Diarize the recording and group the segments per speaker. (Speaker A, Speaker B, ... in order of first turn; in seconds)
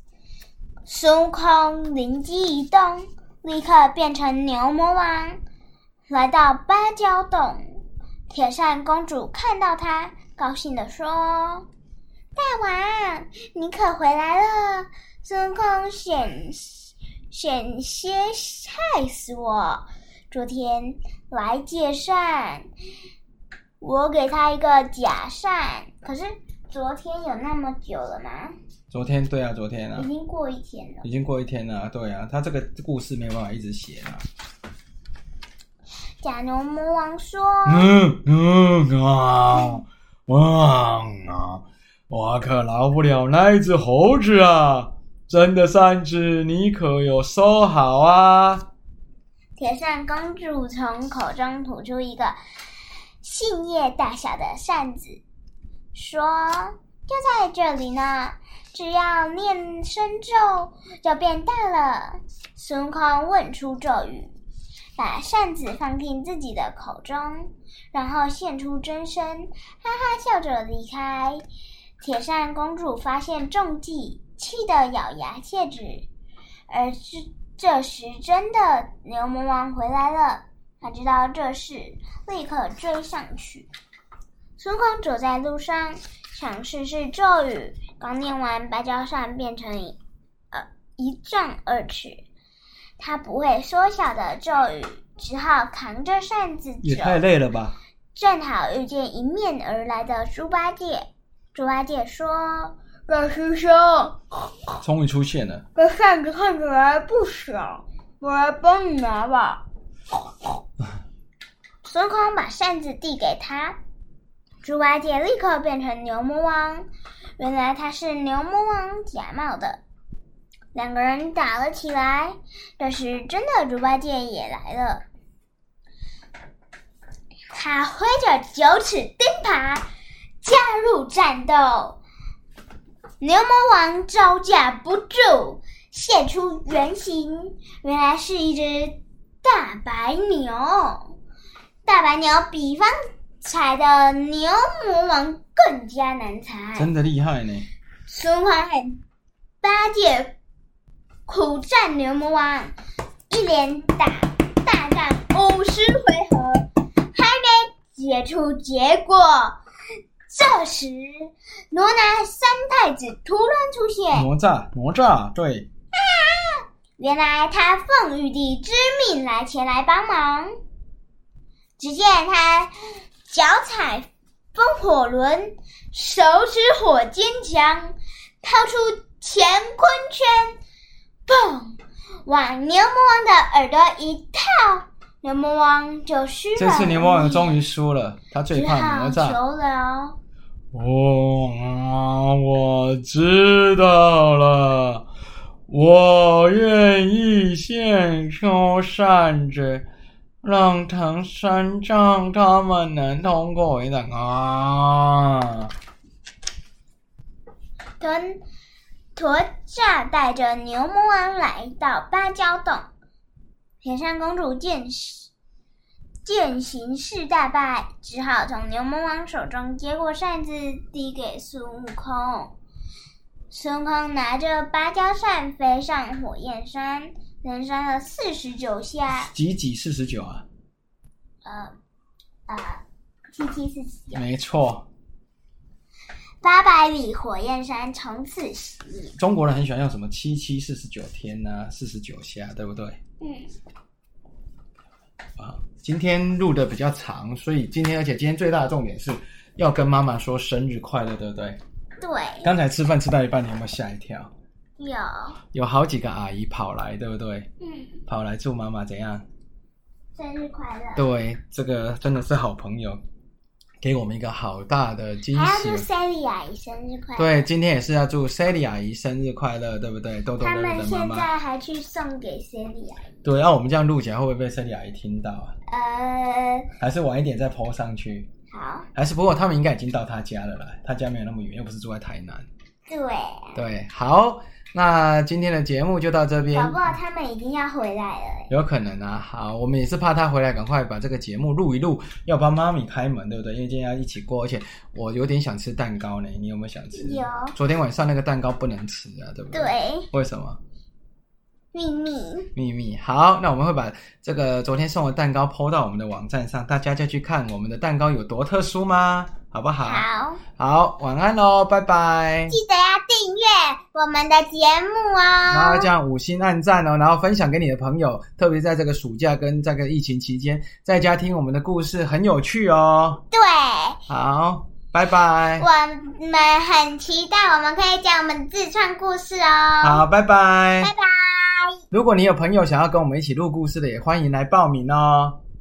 Speaker A: 0.8-5.4, 6.1-11.7, 12.3-22.7, 23.8-28.5, 29.9-31.1, 36.2-37.9, 49.6-52.4, 53.2-55.2, 55.9-64.3, 65.0-71.4, 72.0-76.1, 76.7-83.7, 84.6-90.0, 90.5-92.2, 93.0-97.2, 98.1-104.2, 105.8-109.6, 111.8-113.8, 114.6-116.8, 117.4-119.8, 120.7-125.0, 127.5-129.8, 130.4-132.0, 133.2-141.1, 141.8-146.9, 148.1-149.0, 149.6-150.3, 151.2-152.7, 153.3-159.6, 160.3-164.3, 165.9-170.5, 171.8-172.7, 173.3-180.6, 181.3-187.5, 188.5-190.2, 208.0-208.4, 209.1-212.9, 213.8-215.3, 216.2-222.5, 223.5-229.3, 231.4-231.7, 232.5-234.2, 236.4-239.2, 243.2-243.5, 252.0-252.5, 254.8-255.4, 257.6-258.0, 260.1-261.1, 265.3-267.4, 270.4-273.2, 275.7-276.7, 278.5-278.9, 282.9-283.6, 286.5-288.5, 296.9-297.6, 299.5-300.1, 301.7-302.5, 309.8-310.4, 312.5-315.9, 323.3-324.0, 325.6-330.0, 330.8-331.8
Speaker B: 28.9-30.1, 31.0-34.2, 37.6-48.7, 96.8-97.8, 104.8-105.6, 146.8-147.7, 164.1-165.7, 186.6-189.4, 190.7-195.1, 195.7-199.8, 200.4-205.7, 229.3-230.4, 234.1-234.8, 239.2-243.0, 245.4-251.6, 252.4-254.3, 255.5-257.5, 258.1-259.2, 260.9-263.0, 263.8-265.9, 267.2-271.3, 273.2-275.5, 276.8-278.3, 278.9-282.5, 283.5-286.8, 288.5-300.6, 302.6-310.1, 310.6-312.6, 315.5-323.2, 324.1-325.7, 329.8-330.9, 331.9-335.4